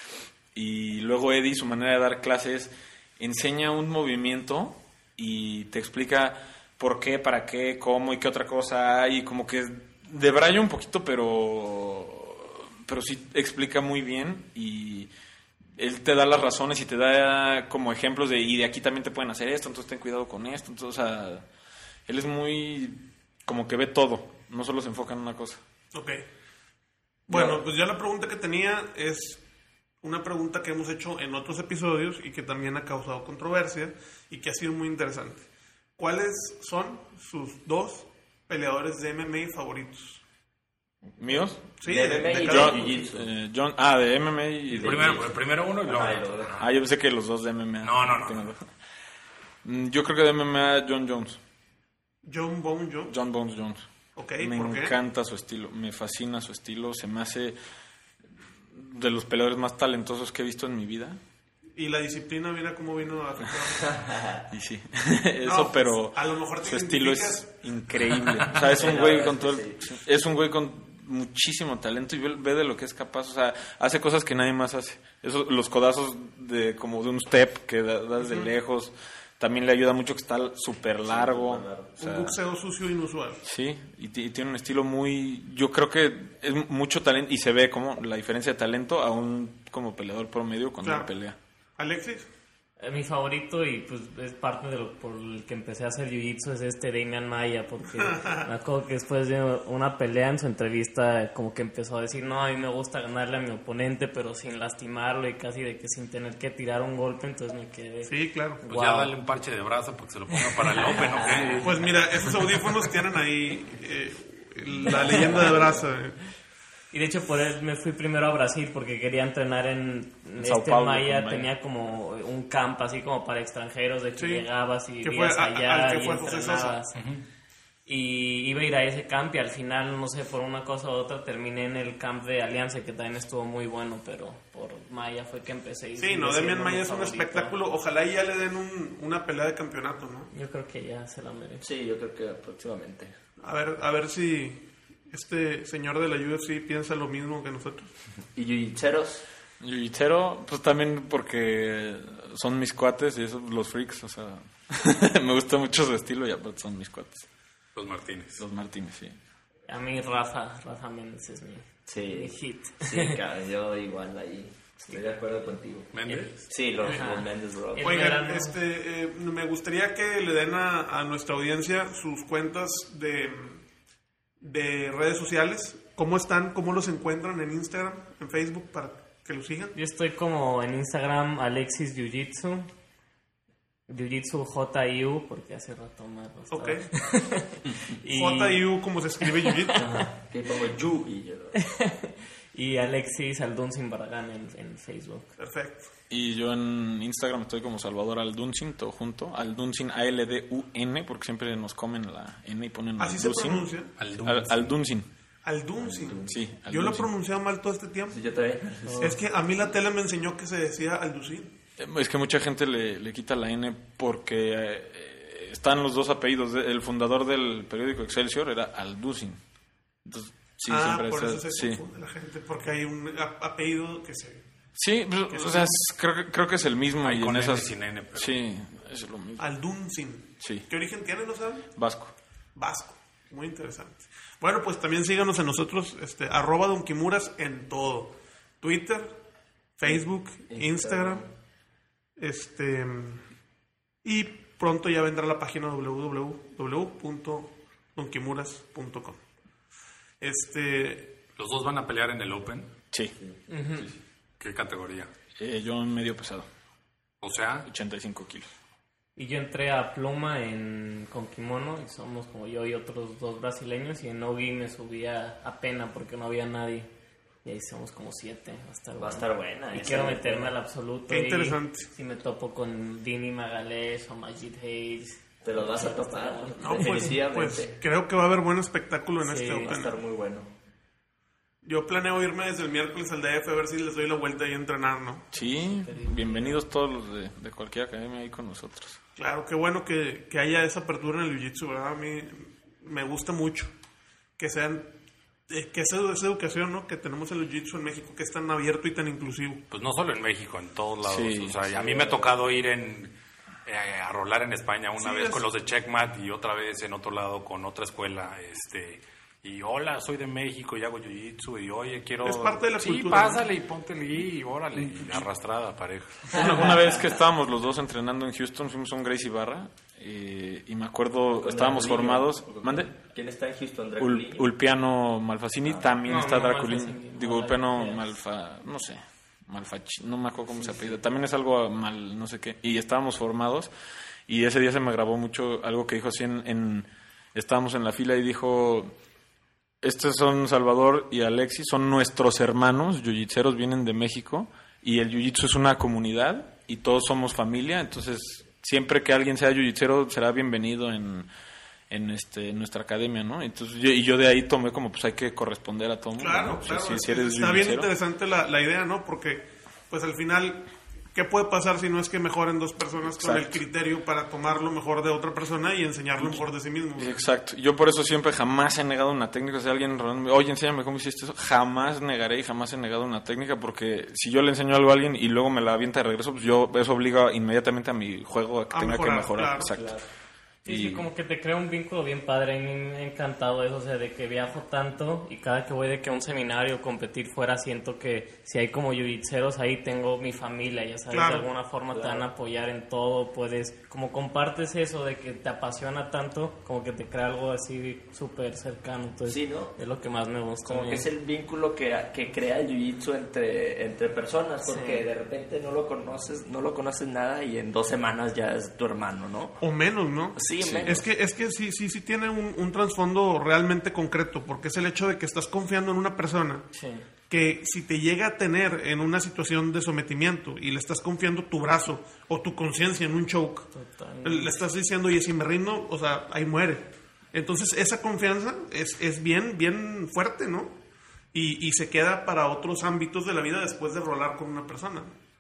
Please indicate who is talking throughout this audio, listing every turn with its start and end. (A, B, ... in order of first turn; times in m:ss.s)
0:00.5-0:15.1 A
0:15.8-0:21.4 A
0:22.1-0:25.6 A
0:25.9-0:26.2 B
0:27.3-0:29.4 B
0:30.0-0:35.4 B
0:36.0-0:40.2 B
0:41.2-0:41.7 A
0:41.8-0:43.0 B
0:41.8-0:43.3 C
0:42.3-0:45.2 A
0:44.7-0:45.2 C
0:44.8-0:46.7 D
0:45.8-0:46.6 C
0:46.6-0:48.6 A
0:47.8-0:48.5 D
0:49.6-0:51.4 A
0:52.2-0:53.2 B
0:53.1-0:53.8 A
0:54.2-0:55.0 B
0:54.4-0:57.6 A
0:58.7-1:01.2 A
1:01.8-1:04.0 B
1:03.8-1:04.4 C
1:04.5-1:22.4 A
1:05.4-1:07.5 B
1:08.6-1:09.8 C
1:21.0-1:21.9 C
1:22.0-1:23.4 B
1:23.4-1:31.4 A
1:30.8-1:31.1 B
1:31.8-1:32.3 B
1:32.8-1:49.1 E
1:38.0-1:38.5 B
1:48.0-1:48.6 B
1:48.7-1:51.8 D
1:50.4-1:51.6 E
1:51.6-1:56.2 B
1:56.9-2:07.0 E
2:00.4-2:01.5 A
2:04.2-2:04.4 B
2:05.0-2:06.8 B
2:06.9-2:07.2 D
2:07.8-2:17.5 E
2:16.0-2:20.3 B
2:20.3-2:21.6 E
2:21.6-2:23.1 C
2:23.4-2:27.9 B
2:28.3-2:29.2 C
2:29.6-2:37.2 A
2:37.7-2:38.4 D
2:38.4-2:39.2 A
2:39.7-2:43.2 E
2:41.9-2:48.1 C
2:45.9-2:46.5 D
2:46.8-2:48.6 E
2:46.8-2:47.1 B
2:47.8-2:53.6 B
2:54.4-2:59.8 B
2:59.7-3:02.7 E
3:03.9-3:08.7 E
3:06.5-3:06.9 B
3:08.1-3:09.9 B
3:09.2-3:10.1 E
3:09.8-3:11.6 C
3:11.5-3:15.3 E
3:15.4-3:15.9 B
3:16.1-3:23.7 A
3:23.0-3:23.9 B
3:24.0-3:24.7 D
3:24.2-3:25.1 A
3:25.4-3:28.3 B
3:25.8-3:26.3 C
3:26.2-3:27.1 A
3:28.1-3:29.1 C
3:28.8-3:29.2 E
3:29.0-3:31.5 B
3:31.8-3:39.4 A
3:40.0-3:41.8 A
3:40.7-3:44.4 B
3:44.8-3:49.5 A
3:45.3-3:45.7 B
3:47.0-3:48.4 D
3:49.4-3:51.7 B
3:51.8-3:52.1 A
3:52.6-3:59.1 B
3:59.8-4:01.2 B
3:59.9-4:01.3 C
4:02.2-4:03.2 B
4:04.0-4:09.2 B
4:10.2-4:11.2 B
4:11.4-4:12.7 D
4:13.5-4:13.9 E
4:14.4-4:15.1 D
4:15.4-4:16.5 A
4:17.2-4:17.7 D
4:17.7-4:18.5 A
4:19.2-4:26.9 E
4:27.4-4:37.1 E
4:29.0-4:30.6 C
4:31.1-4:31.9 B
4:35.4-4:37.8 C
4:36.6-4:40.0 B
4:39.2-4:39.8 E
4:39.6-4:40.5 C
4:41.6-4:45.3 B
4:45.3-4:49.0 A
4:45.6-4:46.6 E
4:49.2-4:53.7 B
4:54.4-4:54.9 B
4:55.5-4:59.6 B
4:59.7-5:03.1 D
5:01.0-5:01.6 A
5:01.9-5:02.2 C
5:03.6-5:16.3 D
5:05.0-5:05.4 B
5:12.2-5:13.4 B
5:16.3-5:22.9 A
5:21.4-5:24.5 C
5:24.0-5:33.7 A
5:26.0-5:28.0 E
5:34.3-5:38.9 A
5:39.8-5:51.3 A
5:51.9-5:57.9 A
5:56.2-6:07.2 B
6:03.2-6:03.6 A
6:07.0-6:20.0 A
6:18.7-6:19.7 B
6:19.7-6:20.0 C
6:20.6-6:41.1 E
6:20.7-6:21.0 A
6:31.1-6:31.5 B
6:31.9-6:32.2 C
6:39.2-6:39.8 C
6:40.6-6:49.6 C
6:44.6-6:45.1 E
6:49.6-6:56.6 B
6:50.4-6:51.1 C
6:56.7-6:57.0 E
6:57.3-7:03.7 B
7:03.7-7:04.6 E
7:04.2-7:10.8 B
7:11.3-7:15.1 B